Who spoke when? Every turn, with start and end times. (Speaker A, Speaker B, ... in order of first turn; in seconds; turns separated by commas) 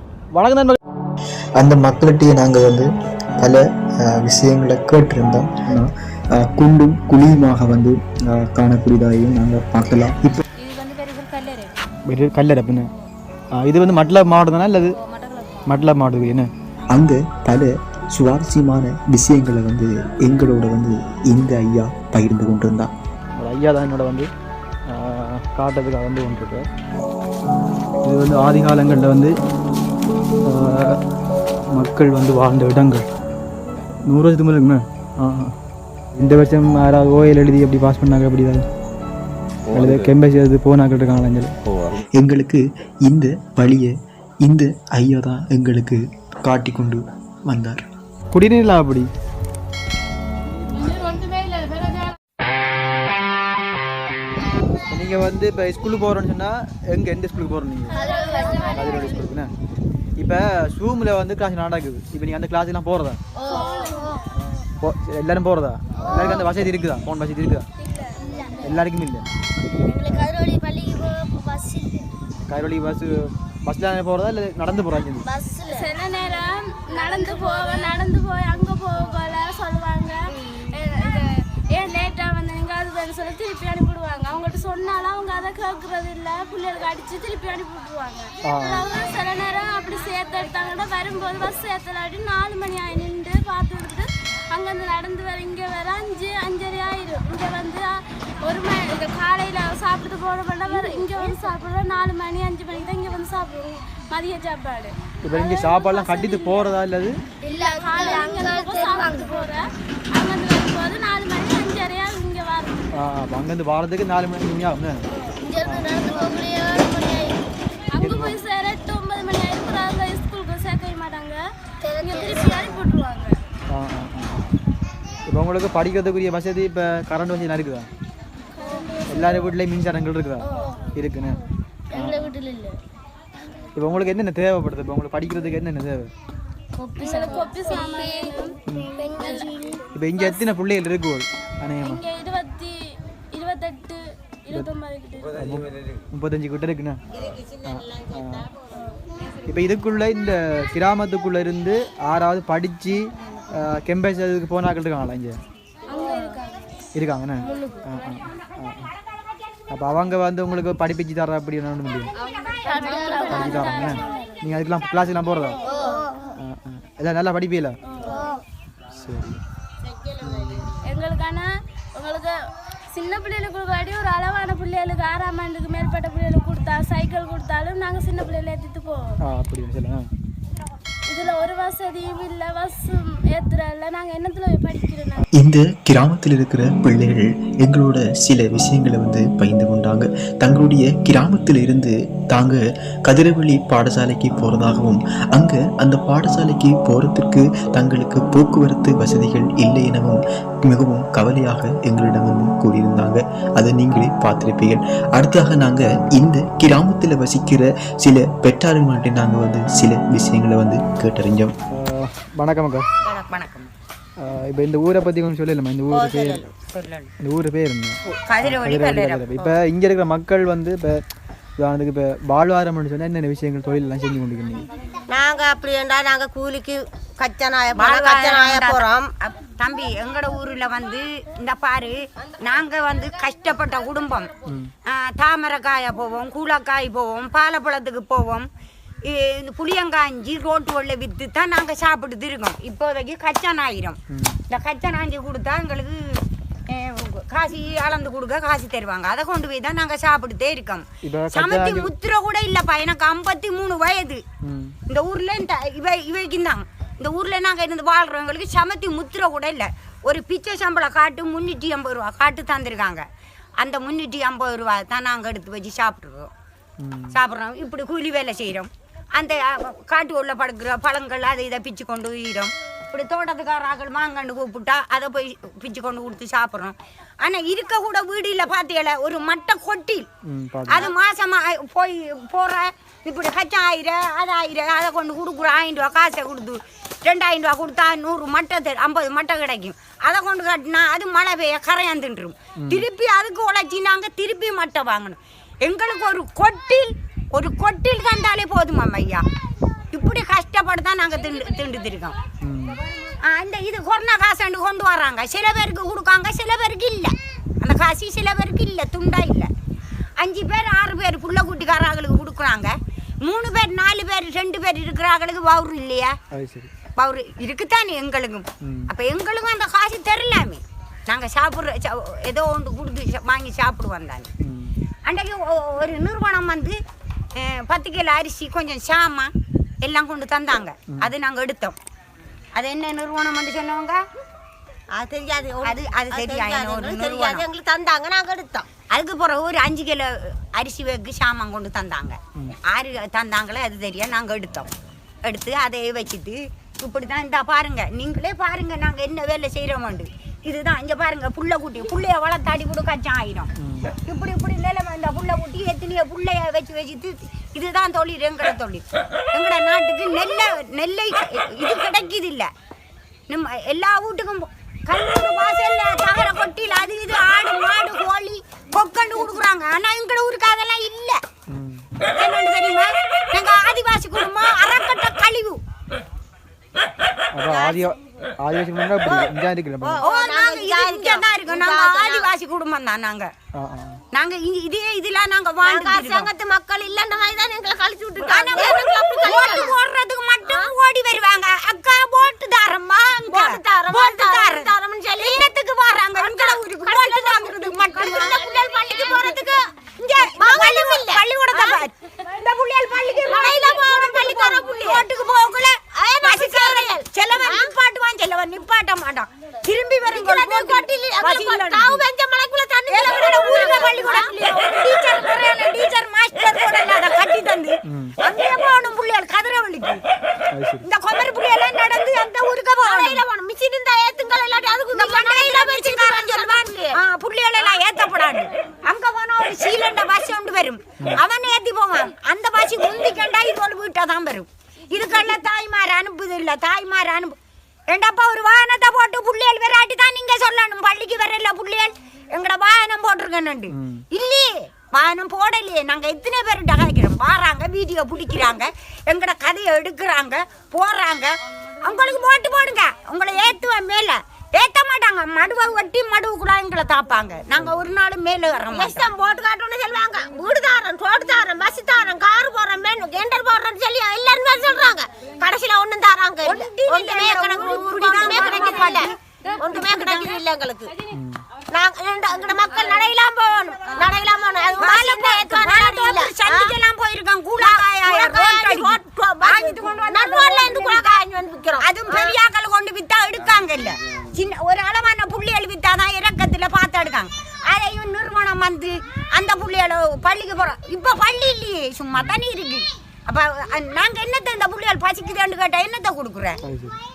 Speaker A: 0.3-0.8, Speaker B: 1.6-2.9, Speaker B: 3.4-10.4, Speaker C: 10.6-11.7, Speaker A: 12.1-12.9, Speaker A: 13.5-14.9, Speaker C: 14.9-15.7, Speaker A: 15.7-16.5, Speaker B: 16.9-22.9, Speaker A: 23.4-24.3, Speaker A: 24.9-26.7, Speaker A: 28.0-29.3, Speaker A: 30.4-31.0, Speaker A: 31.7-33.1, Speaker A: 34.0-35.5, Speaker A: 36.1-38.6, Speaker A: 39.7-41.5, Speaker B: 42.0-47.9, Speaker A: 48.3-49.1, Speaker D: 50.8-52.0, Speaker A: 54.9-58.1, Speaker D: 57.9-59.1, Speaker E: 58.1-59.1, Speaker A: 58.7-59.5, Speaker A: 60.2-63.2, Speaker E: 63.4-64.2, Speaker D: 63.5-64.0, Speaker A: 64.8-67.7, Speaker E: 66.1-66.5, Speaker E: 68.4-68.7, Speaker A: 68.6-69.3, Speaker E: 69.8-72.1, Speaker A: 72.5-75.3, Speaker E: 75.2-75.9, Speaker D: 75.7-97.9, Speaker E: 77.2-77.5, Speaker A: 88.5-88.8, Speaker D: 98.4-106.7, Speaker E: 100.9-101.2, Speaker A: 105.2-107.2, Speaker E: 107.5-109.5, Speaker D: 107.5-112.9, Speaker A: 112.9-115.0, Speaker E: 115.4-117.4, Speaker A: 115.6-116.0, Speaker D: 117.9-121.4, Speaker A: 118.0-118.4, Speaker E: 121.8-122.7, Speaker D: 122.0-123.4, Speaker A: 123.7-124.4, Speaker A: 125.3-127.9, Speaker D: 128.6-129.5, Speaker A: 129.1-131.4, Speaker A: 131.9-132.2, Speaker D: 132.0-132.5, Speaker E: 132.3-132.7, Speaker A: 133.7-136.1, Speaker E: 136.8-138.3, Speaker D: 136.9-138.6, Speaker A: 138.7-138.9, Speaker E: 139.0-139.8, Speaker D: 139.2-139.5, Speaker A: 139.9-142.0, Speaker D: 141.8-142.8, Speaker D: 143.3-145.4, Speaker A: 145.3-147.0, Speaker A: 147.6-148.5, Speaker A: 149.4-155.4, Speaker D: 155.9-156.4, Speaker E: 156.0-156.3, Speaker A: 156.9-158.9, Speaker E: 157.4-157.8, Speaker A: 159.7-162.1, Speaker D: 162.6-164.3, Speaker E: 162.7-163.7, Speaker A: 163.2-165.6, Speaker E: 165.7-166.3, Speaker A: 166.4-167.8, Speaker E: 168.1-168.4, Speaker A: 168.9-169.4, Speaker A: 170.2-170.7, Speaker D: 170.8-172.4, Speaker D: 172.9-179.1, Speaker A: 179.2-180.1, Speaker D: 181.1-185.3, Speaker B: 185.3-211.5, Speaker A: 211.7-212.9, Speaker F: 213.0-213.7, Speaker A: 214.2-216.5, Speaker C: 215.9-217.1, Speaker A: 217.2-221.0, Speaker F: 218.1-219.3, Speaker A: 221.6-224.7, Speaker C: 225.1-229.1, Speaker F: 227.8-234.3, Speaker A: 234.5-234.7, Speaker F: 234.8-238.5, Speaker F: 239.0-254.2, Speaker A: 244.1-244.4, Speaker A: 251.0-251.9, Speaker A: 254.4-254.8, Speaker F: 254.9-263.1, Speaker F: 263.6-266.3, Speaker A: 266.8-267.2, Speaker F: 267.1-280.1, Speaker A: 280.2-280.9, Speaker F: 280.7-299.2, Speaker A: 292.6-292.9, Speaker F: 299.9-302.2, Speaker A: 302.4-302.8, Speaker F: 303.2-309.5, Speaker F: 310.2-316.1, Speaker A: 316.3-316.7, Speaker F: 316.9-324.3, Speaker A: 318.6-318.9, Speaker A: 324.4-324.8, Speaker F: 325.0-326.8, Speaker F: 327.3-329.3, Speaker F: 329.8-331.8, Speaker F: 332.6-334.0, Speaker C: 334.9-338.7, Speaker F: 335.6-337.4, Speaker F: 338.9-344.7, Speaker F: 345.2-353.5, Speaker A: 353.6-353.9, Speaker F: 354.0-362.5, Speaker F: 363.3-371.2, Speaker A: 371.5-371.9, Speaker F: 372.1-375.6, Speaker A: 377.3-380.0, Speaker C: 377.5-377.8, Speaker C: 379.8-382.3, Speaker F: 380.0-383.3, Speaker A: 383.6-384.0, Speaker F: 384.1-386.3, Speaker C: 385.6-389.8, Speaker F: 388.2-412.0, Speaker C: 390.4-390.7, Speaker C: 393.1-395.4, Speaker C: 396.2-399.6, Speaker C: 400.2-401.8, Speaker C: 403.2-405.0, Speaker C: 405.9-407.7, Speaker C: 410.0-414.8, Speaker F: 412.9-420.0, Speaker A: 417.9-418.1, Speaker A: 420.5-420.8, Speaker F: 420.8-423.2, Speaker C: 422.8-427.0, Speaker F: 424.9-437.3, Speaker F: 437.9-459.1, Speaker A: 443.7-444.0, Speaker C: 458.7-470.9, Speaker F: 466.4-470.4, Speaker A: 471.1-471.4, Speaker C: 471.7-476.8, Speaker F: 474.8-481.1, Speaker C: 477.6-482.4, Speaker F: 481.8-496.6, Speaker A: 496.6-496.9